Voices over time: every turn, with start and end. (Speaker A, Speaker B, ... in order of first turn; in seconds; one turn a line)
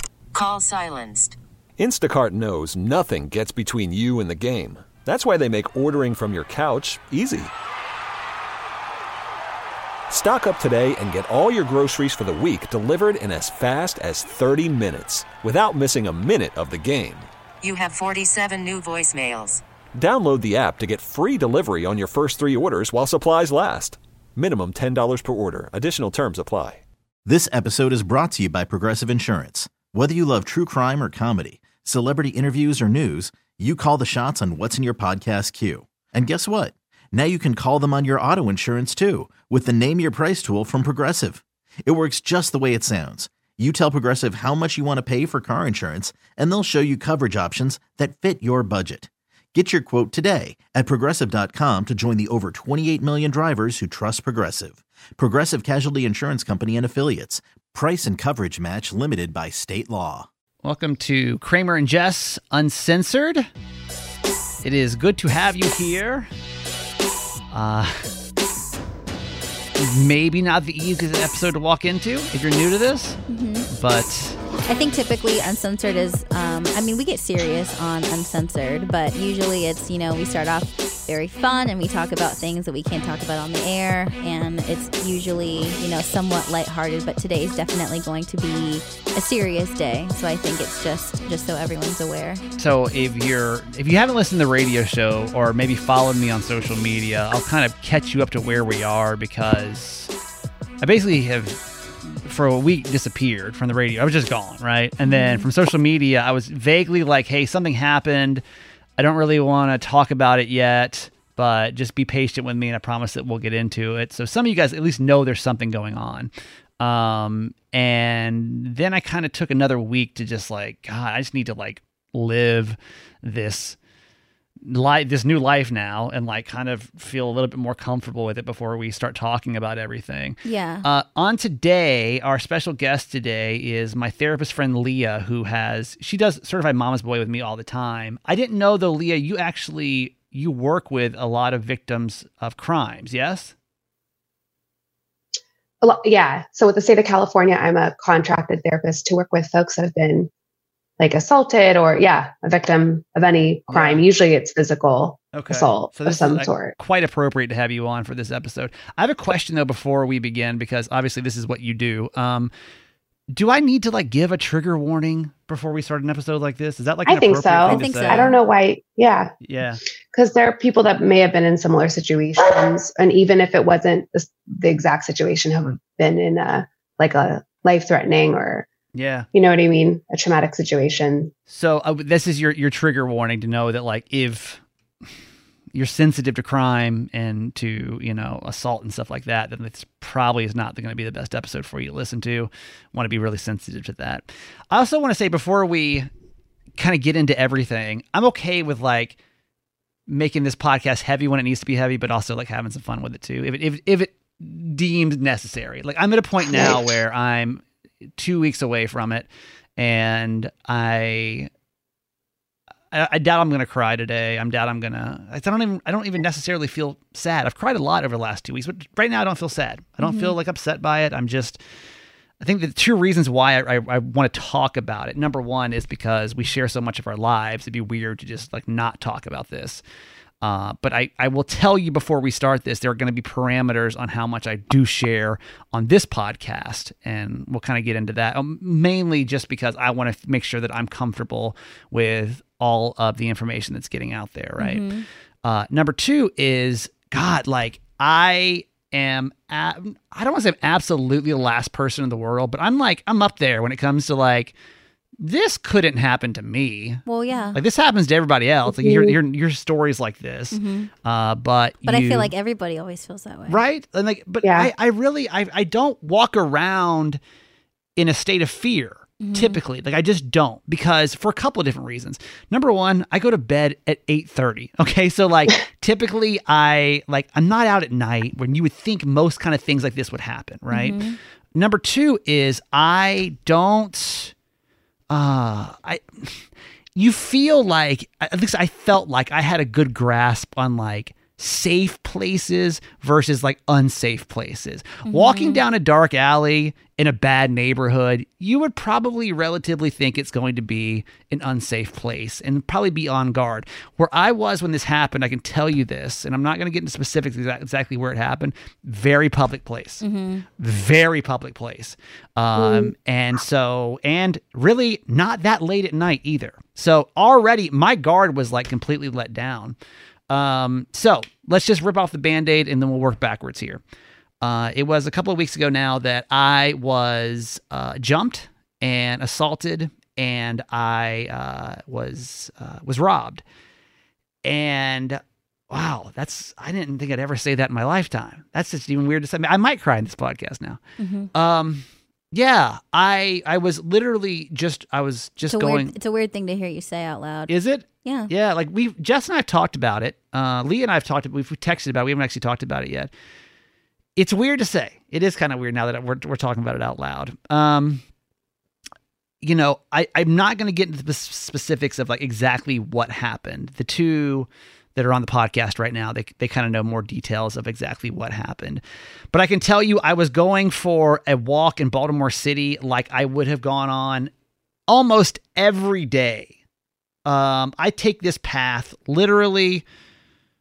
Speaker A: 0.3-1.4
Speaker B: 1.8-7.5
Speaker B: 10.1-17.3
Speaker A: 17.6-19.6
Speaker B: 20.0-26.8
Speaker C: 27.2-60.3
Speaker D: 60.6-63.5
Speaker D: 64.6-66.3
Speaker D: 67.5-68.1
Speaker D: 69.8-74.4
Speaker E: 73.3-73.7
Speaker E: 74.7-92.4
Speaker D: 92.6-100.1
Speaker D: 100.8-108.4
Speaker E: 105.0-105.5
Speaker D: 109.0-123.8
Speaker D: 124.7-143.5
Speaker E: 130.4-130.9
Speaker F: 145.8-150.3
Speaker F: 151.0-156.7
Speaker D: 153.7-154.1
Speaker D: 155.3-162.5
Speaker D: 163.3-168.3
Speaker F: 167.1-169.3
Speaker E: 167.7-168.4
Speaker D: 169.4-169.8
Speaker F: 170.1-178.7
Speaker D: 178.9-179.3
Speaker F: 179.3-181.3
Speaker D: 181.5-184.6
Speaker D: 185.7-196.1
Speaker D: 196.8-199.2
Speaker D: 200.1-207.6
Speaker F: 206.5-206.8
Speaker D: 208.2-211.5
Speaker D: 212.9-221.6
Speaker E: 220.0-220.4
Speaker D: 222.4-229.8
Speaker D: 230.4-254.5
Speaker E: 244.6-245.1
Speaker D: 255.2-262.3
Speaker E: 257.1-257.6
Speaker F: 258.7-259.1
Speaker E: 260.5-260.9
Speaker E: 261.9-263.6
Speaker D: 263.5-267.2
Speaker F: 264.4-264.7
Speaker D: 268.0-281.0
Speaker E: 269.2-269.6
Speaker E: 280.7-281.2
Speaker D: 281.6-284.3
Speaker D: 285.1-286.4
Speaker D: 287.0-310.0
Speaker E: 295.1-295.6
Speaker E: 310.0-310.5
Speaker D: 310.6-319.8
Speaker F: 312.6-312.9
Speaker D: 320.3-323.8
Speaker D: 324.4-333.4
Speaker D: 334.4-335.2
Speaker D: 335.7-340.8
Speaker E: 341.0-341.3
Speaker D: 341.3-345.9
Speaker E: 345.5-347.5
Speaker D: 347.5-353.1
Speaker E: 348.1-348.3
Speaker D: 354.2-358.0
Speaker D: 359.4-368.8
Speaker D: 369.3-374.3
Speaker D: 374.9-376.5
Speaker D: 377.3-379.8